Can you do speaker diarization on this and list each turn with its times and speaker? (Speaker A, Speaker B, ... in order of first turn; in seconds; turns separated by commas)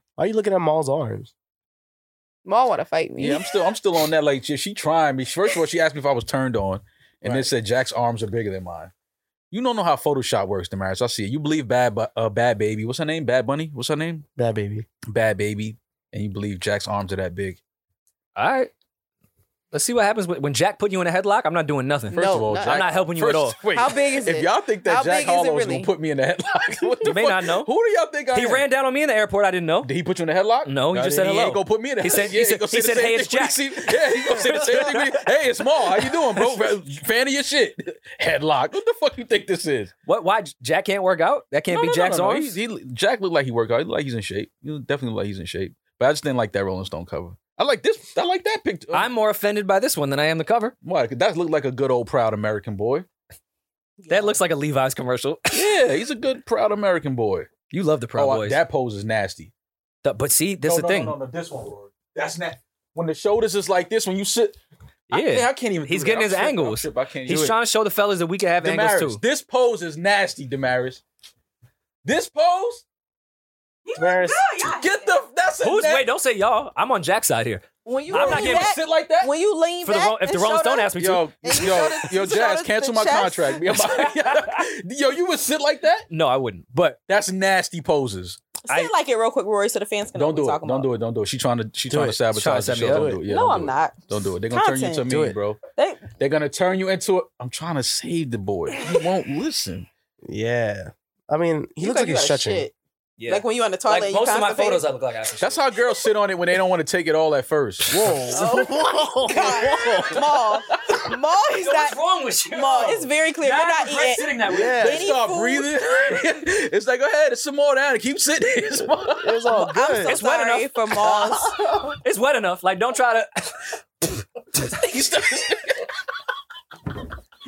Speaker A: 0.2-1.3, Speaker B: 2.5-3.5, Speaker C: 3.2-8.9, Speaker A: 7.2-7.5, Speaker C: 9.5-14.2, Speaker A: 14.4-14.8, Speaker C: 15.1-17.6, Speaker D: 18.4-18.7, Speaker D: 19.7-23.6, Speaker B: 22.1-22.9, Speaker C: 22.1-28.6, Speaker B: 23.7-25.9, Speaker D: 27.0-27.7, Speaker D: 28.3-29.9, Speaker C: 29.8-39.9, Speaker D: 30.6-35.2, Speaker D: 36.0-36.4, Speaker D: 40.0-42.5, Speaker C: 41.7-49.1, Speaker D: 48.9-50.7, Speaker C: 50.8-53.1, Speaker B: 54.0-54.4, Speaker D: 54.1-55.7, Speaker C: 55.5-57.5, Speaker D: 57.7-58.6, Speaker C: 58.1-59.5, Speaker D: 60.0-61.1, Speaker C: 60.6-64.6, Speaker C: 65.1-67.5, Speaker D: 65.1-69.2, Speaker C: 68.6-71.0, Speaker C: 72.0-72.8, Speaker B: 73.9-75.1, Speaker A: 74.0-74.4, Speaker C: 74.6-76.1, Speaker D: 75.6-78.7, Speaker B: 77.8-80.9, Speaker C: 78.1-79.3, Speaker D: 79.8-81.3, Speaker C: 81.0-86.1, Speaker B: 81.4-83.8, Speaker D: 83.7-84.6, Speaker D: 86.1-87.0, Speaker C: 87.1-88.4, Speaker B: 88.7-90.9, Speaker C: 90.1-95.6, Speaker A: 91.9-92.2, Speaker D: 92.3-93.1, Speaker A: 92.8-93.2, Speaker B: 93.2-95.1, Speaker A: 95.1-95.4, Speaker B: 95.8-96.1, Speaker C: 96.2-99.9, Speaker A: 100.3-102.7, Speaker B: 101.8-102.7, Speaker D: 103.2-105.6, Speaker B: 103.3-104.8, Speaker C: 105.4-108.5, Speaker D: 107.9-110.2, Speaker A: 108.0-108.5, Speaker B: 108.3-112.0, Speaker C: 109.7-110.2, Speaker D: 111.5-114.9, Speaker B: 112.5-115.8, Speaker A: 114.5-115.1, Speaker C: 114.7-119.5, Speaker A: 119.2-120.2, Speaker B: 119.5-121.8, Speaker D: 120.1-121.4, Speaker D: 122.0-123.7, Speaker C: 124.5-125.9